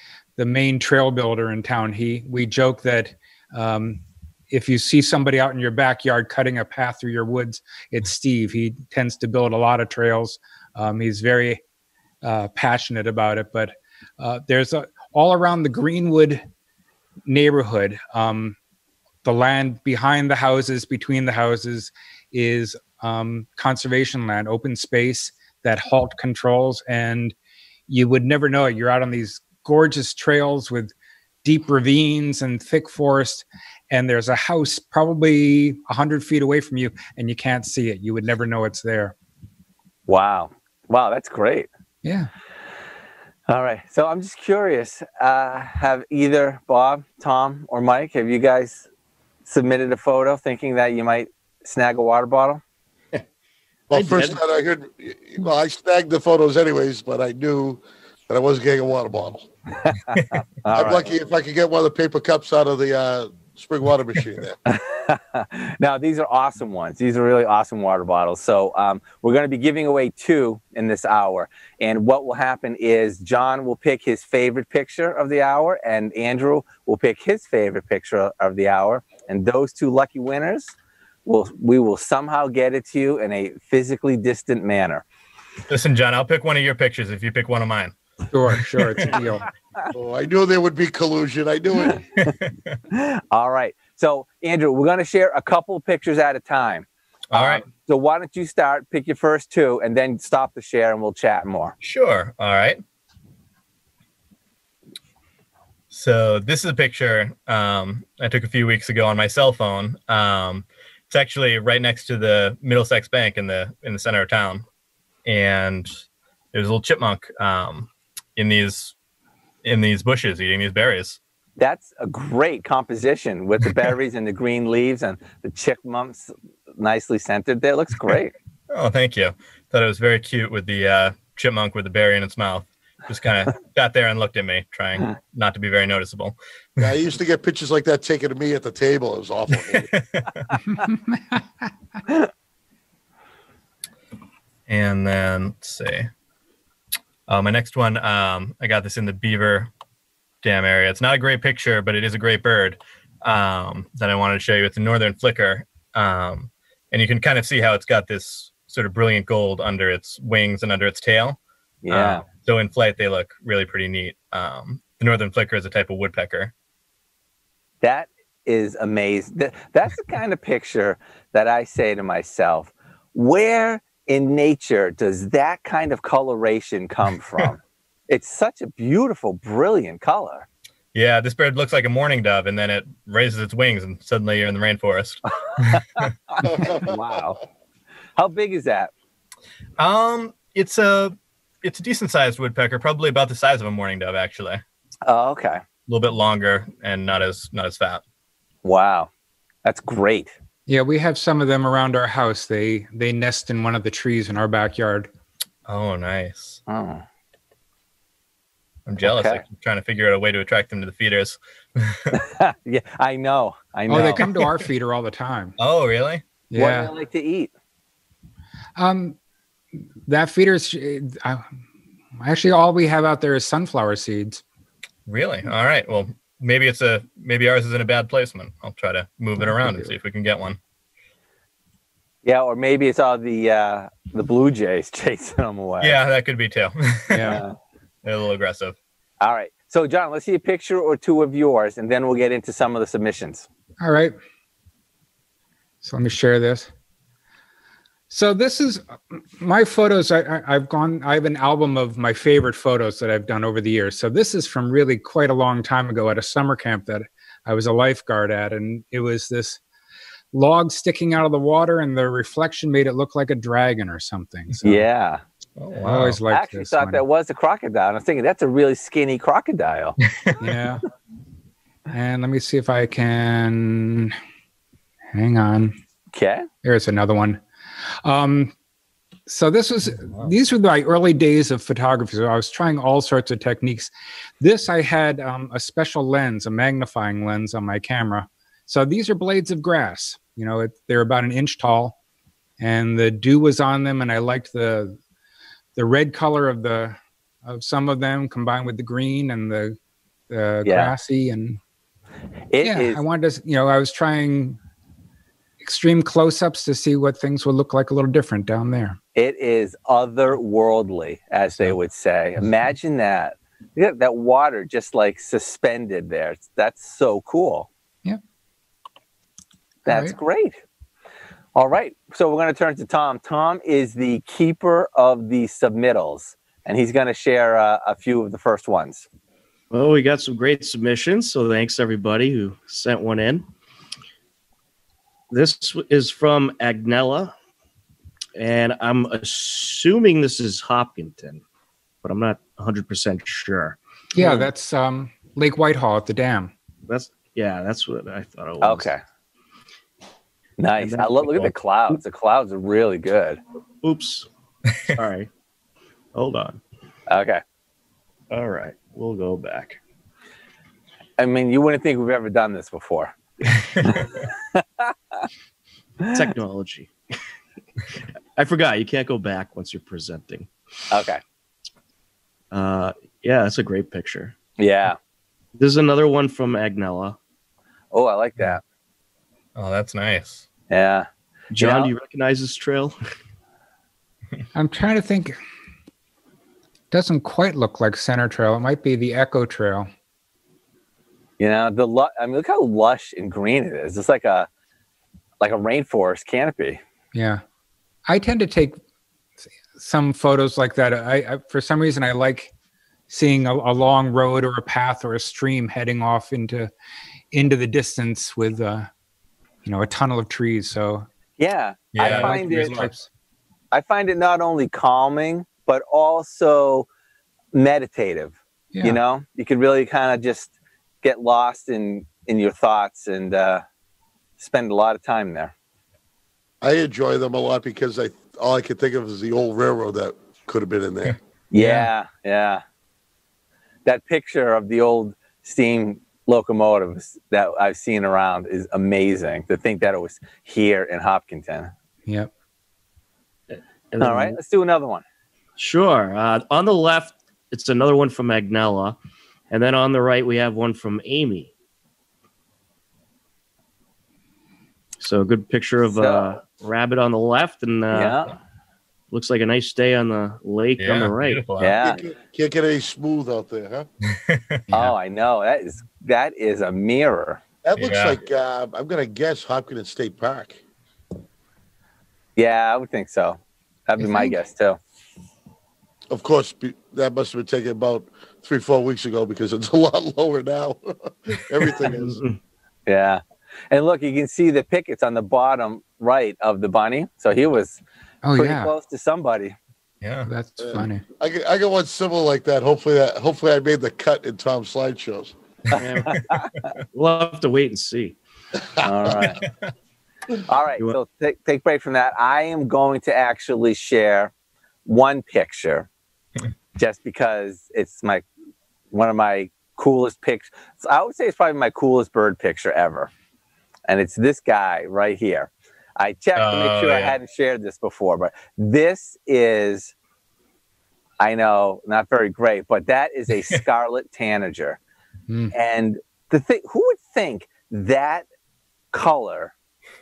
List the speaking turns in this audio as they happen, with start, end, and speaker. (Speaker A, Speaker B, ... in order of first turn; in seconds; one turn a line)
Speaker A: 0.4-11.6
Speaker A: 12.2-16.4
Speaker A: 17.2-18.6
Speaker A: 19.2-27.3
Speaker A: 27.9-39.1
Speaker B: 40.1-41.7
Speaker A: 42.0-42.3
Speaker B: 43.5-48.8
Speaker B: 49.5-52.6
Speaker C: 53.9-59.5
Speaker D: 53.9-54.4
Speaker B: 59.8-61.1
Speaker C: 60.7-64.6
Speaker B: 64.7-80.7
Speaker B: 81.2-85.0
Speaker E: 85.7-87.9
Speaker A: 88.3-89.5
Speaker E: 88.5-89.1
Speaker C: 89.9-92.0
Speaker E: 92.2-92.5
Speaker B: 92.9-101.7
Speaker E: 97.3-97.6
Speaker E: 101.8-102.8
Speaker E: 105.9-114.6
Speaker E: 115.2-115.9
Speaker E: 116.5-118.9
Speaker E: 119.6-121.2
Speaker B: 121.6-128.3
Speaker E: 128.7-136.8
Speaker C: 136.8-140.0
Speaker E: 139.9-140.3
Speaker A: 140.8-141.4
Speaker E: 144.7-146.1
Speaker E: 147.3-149.7
Speaker E: 150.4-166.5
Speaker B: 161.8-162.2
Speaker B: 167.8-180.4
Speaker E: 180.9-185.8
Speaker B: 185.5-186.1
Speaker C: 186.4-187.0
Speaker B: 186.6-187.4
Speaker B: 188.2-188.9
Speaker E: 189.8-194.6
Speaker B: 195.1-195.6
Speaker E: 195.9-198.0
Speaker B: 198.6-199.1
Speaker B: 199.6-200.3
Speaker A: 200.7-205.1
Speaker E: 205.7-206.6
Speaker B: 206.7-207.0
Speaker E: 208.8-212.1
Speaker B: 209.0-209.4
Speaker B: 212.1-214.3
Speaker A: 213.9-215.6
Speaker E: 214.0-214.5
Speaker E: 215.6-216.2
Speaker A: 216.5-216.9
Speaker B: 216.5-217.5
Speaker A: 218.8-219.2
Speaker A: 219.8-221.5
Speaker A: 222.1-224.4
Speaker E: 225.1-230.6
Speaker A: 229.4-229.9
Speaker B: 232.2-236.0
Speaker E: 235.8-237.4
Speaker A: 237.1-237.4
Speaker B: 237.3-237.5
Speaker E: 238.0-238.8
Speaker B: 239.2-243.4
Speaker A: 243.8-244.2
Speaker A: 245.8-246.7
Speaker A: 248.1-259.6
Speaker A: 260.3-264.8
Speaker B: 264.6-265.2
Speaker E: 265.6-266.2
Speaker A: 265.8-267.0
Speaker B: 266.3-270.0
Speaker A: 270.4-270.8
Speaker A: 271.9-274.2
Speaker A: 275.1-275.7
Speaker B: 276.1-276.5
Speaker A: 276.6-278.5
Speaker A: 279.3-291.9
Speaker A: 292.6-295.0
Speaker A: 295.8-299.8
Speaker A: 300.3-301.6
Speaker B: 300.6-300.9
Speaker B: 302.5-303.0
Speaker A: 302.6-304.6
Speaker A: 305.6-309.0
Speaker B: 309.1-317.7
Speaker B: 319.8-320.6
Speaker A: 319.9-320.1
Speaker B: 321.5-329.1
Speaker D: 329.7-333.4
Speaker D: 335.3-337.3
Speaker D: 338.4-341.4
Speaker D: 342.0-344.5
Speaker A: 344.1-346.5
Speaker D: 346.9-348.9
Speaker B: 348.6-349.0
Speaker B: 350.6-353.4
Speaker D: 350.8-351.5
Speaker D: 353.8-354.3
Speaker D: 354.9-355.3
Speaker D: 356.1-356.6
Speaker B: 357.1-357.4
Speaker D: 358.3-359.8
Speaker B: 361.2-364.9
Speaker D: 366.1-366.9
Speaker D: 368.3-370.5
Speaker B: 370.9-371.2
Speaker D: 372.5-374.3
Speaker B: 374.6-375.0
Speaker D: 375.6-377.2
Speaker B: 377.9-378.6
Speaker E: 379.6-380.4
Speaker B: 380.7-381.9
Speaker D: 381.5-382.9
Speaker A: 384.5-385.4
Speaker A: 386.9-389.9
Speaker B: 391.4-394.5
Speaker B: 395.4-396.8
Speaker A: 397.1-397.4
Speaker A: 398.1-398.8
Speaker A: 399.7-402.5
Speaker A: 403.1-406.7
Speaker A: 407.3-408.9
Speaker A: 409.6-411.1
Speaker B: 411.4-412.9
Speaker E: 411.9-412.9
Speaker A: 412.0-413.1
Speaker B: 413.7-416.9
Speaker B: 417.5-420.5
Speaker A: 418.7-419.0
Speaker B: 421.0-423.6
Speaker B: 424.4-425.5
Speaker C: 426.6-431.2
Speaker B: 431.5-432.6
Speaker B: 433.9-441.7
Speaker A: 442.1-442.3
Speaker D: 443.5-444.4
Speaker B: 444.0-445.0
Speaker D: 445.6-449.0
Speaker D: 449.5-451.5
Speaker D: 455.0-458.2
Speaker B: 455.9-456.3
Speaker B: 457.9-458.3
Speaker D: 459.1-461.5
Speaker E: 460.8-461.8
Speaker B: 461.6-462.0
Speaker C: 461.8-463.9
Speaker E: 464.1-464.6
Speaker A: 464.7-464.9
Speaker B: 464.7-467.4
Speaker C: 467.6-470.6
Speaker E: 467.8-468.2
Speaker B: 472.4-474.8
Speaker A: 474.0-474.3
Speaker C: 476.1-482.2
Speaker D: 481.9-482.4
Speaker B: 482.9-487.8
Speaker A: 488.2-488.7
Speaker B: 488.3-489.6
Speaker E: 490.0-490.3
Speaker A: 490.2-491.0
Speaker C: 490.6-495.3
Speaker D: 495.8-496.2
Speaker B: 495.8-496.7
Speaker D: 496.9-498.2
Speaker B: 498.8-499.4
Speaker B: 500.5-504.3
Speaker B: 504.9-505.9
Speaker B: 506.8-508.2
Speaker B: 508.9-513.1
Speaker B: 513.9-519.9
Speaker E: 516.4-517.1
Speaker B: 521.2-524.8
Speaker A: 525.3-525.5
Speaker B: 525.5-528.2
Speaker B: 528.9-529.5